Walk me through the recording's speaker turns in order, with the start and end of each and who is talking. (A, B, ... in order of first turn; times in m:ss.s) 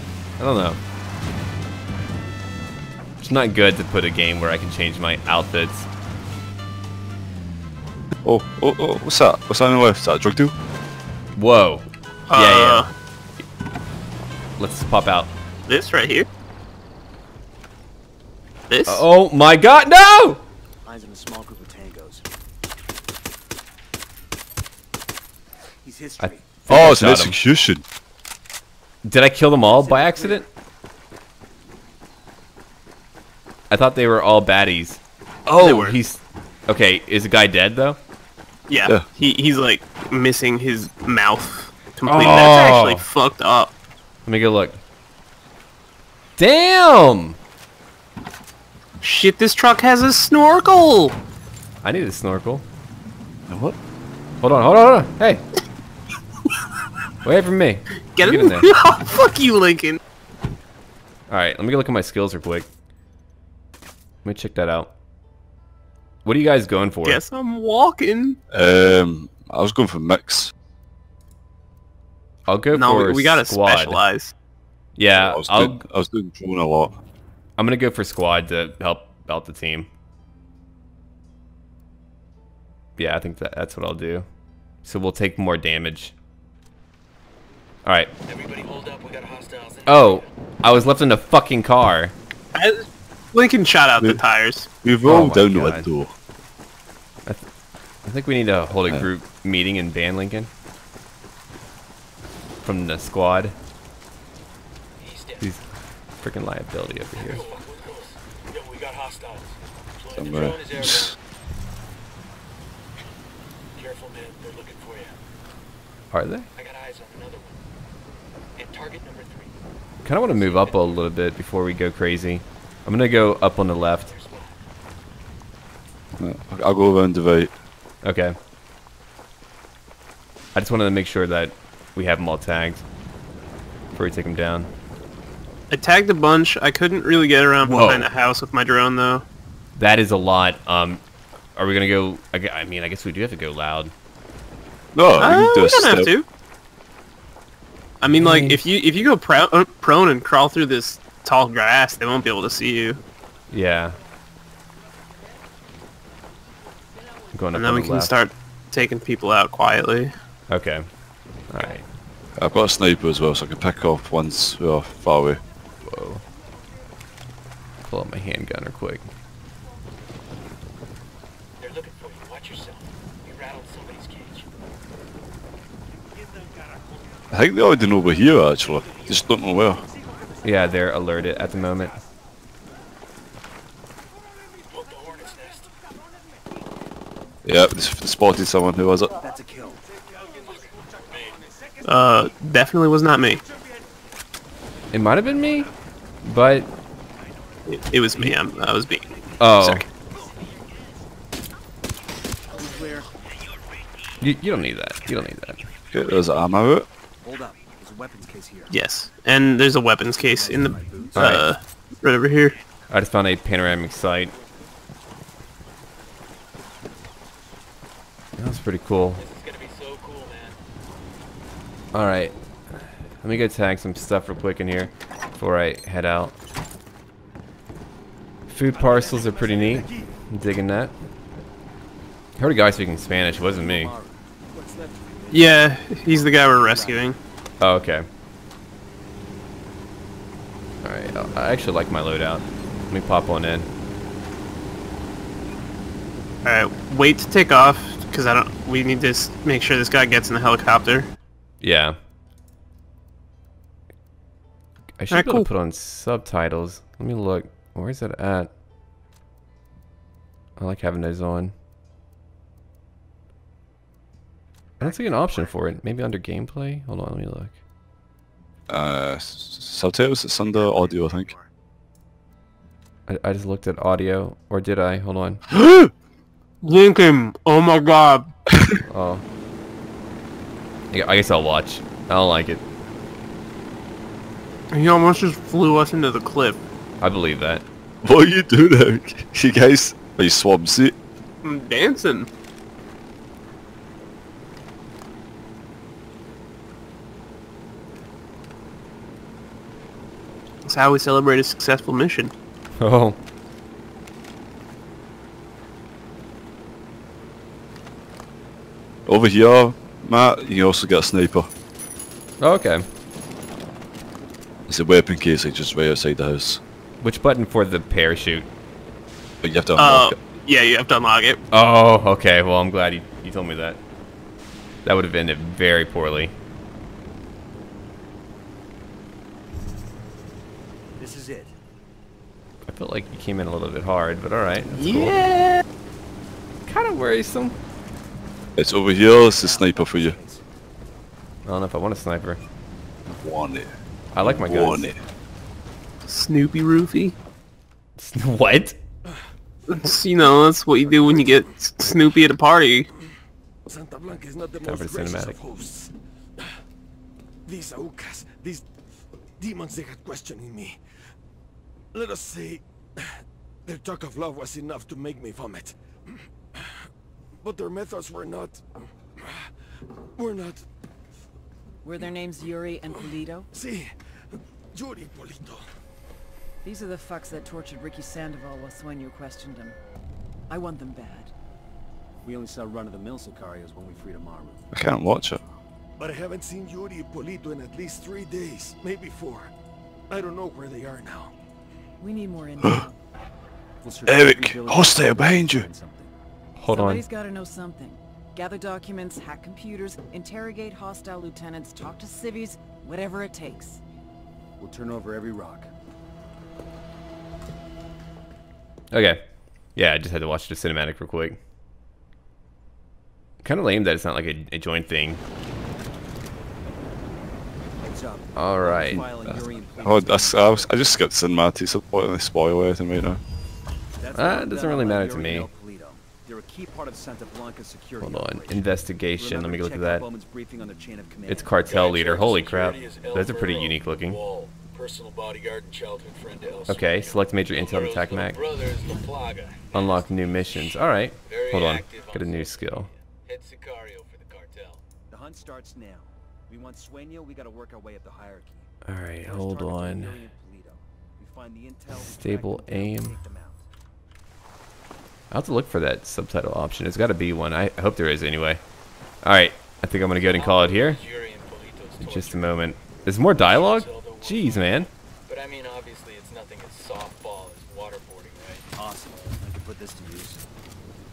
0:00.4-0:00.8 A
0:03.2-0:05.9 A
0:08.2-0:10.5 B
0:11.4-0:12.8 A
0:12.3-0:12.9 C
0:14.6-0:15.3 A
0:15.7-0:16.3 C
0:18.7-0:19.0 C
0:18.9-0:20.4 A
0:20.8-0:22.2 D
0:25.8-0:26.5 D
0:26.2-0:27.4 A
0:26.7-0:27.8 B
0:29.0-0:30.4 A
0:29.6-0:30.4 D
0:33.7-0:38.0 A
0:35.6-0:36.0 C
0:38.7-0:43.7 C
0:42.1-0:43.0 A
0:44.2-0:44.8 A
0:46.4-0:47.4 A
0:49.0-0:51.2 C
0:51.8-0:52.6 A
0:53.5-0:53.8 B
0:54.4-0:55.4 A
0:57.2-0:58.7 A
0:58.1-1:00.0 C
1:01.3-1:02.7 A
1:04.2-1:04.9 A
1:06.2-1:07.2 A
1:07.0-1:08.4 C
1:08.5-1:10.5 B
1:12.5-1:14.0 A
1:12.7-1:14.3 C
1:15.0-1:15.8 A
1:15.1-1:17.0 B
1:17.6-1:19.9 A
1:23.0-1:24.2 A
1:24.8-1:26.1 A
1:27.8-1:28.1 A
1:28.3-1:30.3 E
1:29.8-1:32.1 A
1:32.5-1:34.7 C
1:34.8-1:36.1 B
1:35.0-1:35.9 A
1:38.0-1:40.5 A
1:38.8-1:39.1 B
1:42.6-1:43.5 A
1:45.0-1:45.4 E
1:46.2-1:47.5 A
1:47.2-1:51.1 E
1:50.1-1:51.2 B
1:53.8-1:55.2 E
1:56.1-1:56.5 A
1:56.6-1:57.6 E
1:58.6-1:59.5 E
2:00.0-2:04.1 A
2:00.2-2:00.8 E
2:04.1-2:04.6 E
2:06.2-2:07.5 B
2:08.0-2:08.3 A
2:10.5-2:12.8 A
2:13.9-2:14.7 A
2:15.7-2:19.2 C
2:17.6-2:18.1 A
2:19.8-2:21.0 A
2:21.6-2:23.9 A
2:24.9-2:26.1 B
2:25.2-2:26.2 C
2:28.0-2:33.0 C
2:28.2-2:28.6 A
2:33.5-2:34.0 A
2:37.3-2:38.2 A
2:37.5-2:40.1 C
2:40.5-2:40.9 A
2:41.5-2:41.8 A
2:42.4-2:45.4 B
2:45.8-2:46.2 A
2:47.8-2:49.1 A
2:51.6-2:54.4 E
2:57.3-2:59.8 B
3:00.4-3:02.0 A
3:04.7-3:05.7 E
3:07.4-3:09.1 B
3:09.2-3:09.8 D
3:10.3-3:11.4 E
3:11.8-3:13.4 C
3:14.9-3:15.7 A
3:16.2-3:16.7 A
3:17.6-3:19.8 C
3:19.4-3:19.8 A
3:22.6-3:23.1 D
3:24.2-3:25.6 A
3:25.9-3:26.9 B
3:27.2-3:28.7 D
3:28.7-3:32.6 C
3:30.2-3:31.3 D
3:31.1-3:31.5 A
3:32.9-3:34.3 A
3:38.4-3:39.2 A
3:39.2-3:40.6 E
3:41.9-3:42.3 A
3:43.2-3:46.3 A
3:48.5-3:50.9 A
3:48.9-3:49.9 D
3:52.4-3:53.9 A
3:53.2-3:57.1 D
3:55.3-3:57.2 C
3:57.6-3:58.0 A
4:00.8-4:03.7 A
4:06.4-4:11.1 C
4:11.6-4:12.0 A
4:15.0-4:18.5 A
4:15.1-4:15.5 C
4:20.6-4:21.5 A
4:24.8-4:27.6 A
4:24.8-4:25.6 D
4:28.7-4:31.3 B
4:30.5-4:31.5 D
4:33.1-4:35.4 A
4:35.5-4:35.9 B
4:36.6-4:38.3 C
4:38.5-4:38.8 B
4:38.9-4:39.2 A
4:40.9-4:42.6 A
4:44.7-4:46.6 C
4:47.0-4:47.6 A
4:48.0-4:51.0 B
4:51.4-4:52.3 C
5:00.6-5:02.3 C
5:02.8-5:03.2 A
5:09.0-5:11.5 B
5:12.4-5:12.8 A
5:14.7-5:16.6 B
5:17.0-5:18.5 A
5:19.4-5:20.2 B
5:19.8-5:21.4 C
5:21.5-5:23.8 A
5:24.8-5:26.3 A
5:31.0-5:31.5 D
5:32.7-5:35.1 A
5:34.6-5:35.6 C
5:36.7-5:37.5 A
5:38.6-5:40.2 B
5:39.1-5:40.5 D
5:41.4-5:42.4 A
5:43.2-5:45.0 B
5:44.1-5:44.9 A
5:46.0-5:47.1 C
5:48.0-5:48.8 A
5:49.7-5:52.9 C
5:53.7-5:55.9 F
5:54.6-5:55.4 A
5:57.5-5:58.6 F
5:59.4-6:00.8 F
6:01.9-6:02.6 F
6:03.6-6:05.8 F
6:07.4-6:08.6 F
6:10.2-6:10.6 F
6:11.8-6:13.5 G
6:13.5-6:13.9 F
6:14.7-6:15.7 F
6:16.6-6:19.8 G
6:20.5-6:21.3 G
6:22.2-6:24.6 D
6:24.7-6:25.4 B
6:26.0-6:29.5 F
6:30.1-6:31.3 F
6:32.0-6:32.9 G
6:33.8-6:36.1 D
6:34.1-6:35.7 B
6:36.6-6:37.0 A
6:36.7-6:43.8 G
6:44.6-6:45.7 D
6:48.9-6:49.2 A
6:49.7-6:51.4 A
6:53.4-6:55.2 A
6:57.8-7:00.9 D
6:58.4-6:59.1 A
6:59.2-7:03.2 B
7:04.0-7:11.6 D
7:04.1-7:05.5 A
7:08.0-7:10.0 A
7:11.3-7:14.2 A
7:11.7-7:20.1 E
7:16.7-7:18.4 A
7:19.7-7:22.9 A
7:21.2-7:24.8 E
7:25.1-7:28.7 D
7:28.9-7:30.2 A
7:29.2-7:33.6 D
7:31.9-7:33.1 A
7:35.3-7:38.6 A
7:39.2-7:41.0 A
7:40.2-7:42.6 E
7:42.0-7:44.9 A
7:43.3-7:48.6 E
7:48.8-7:50.4 D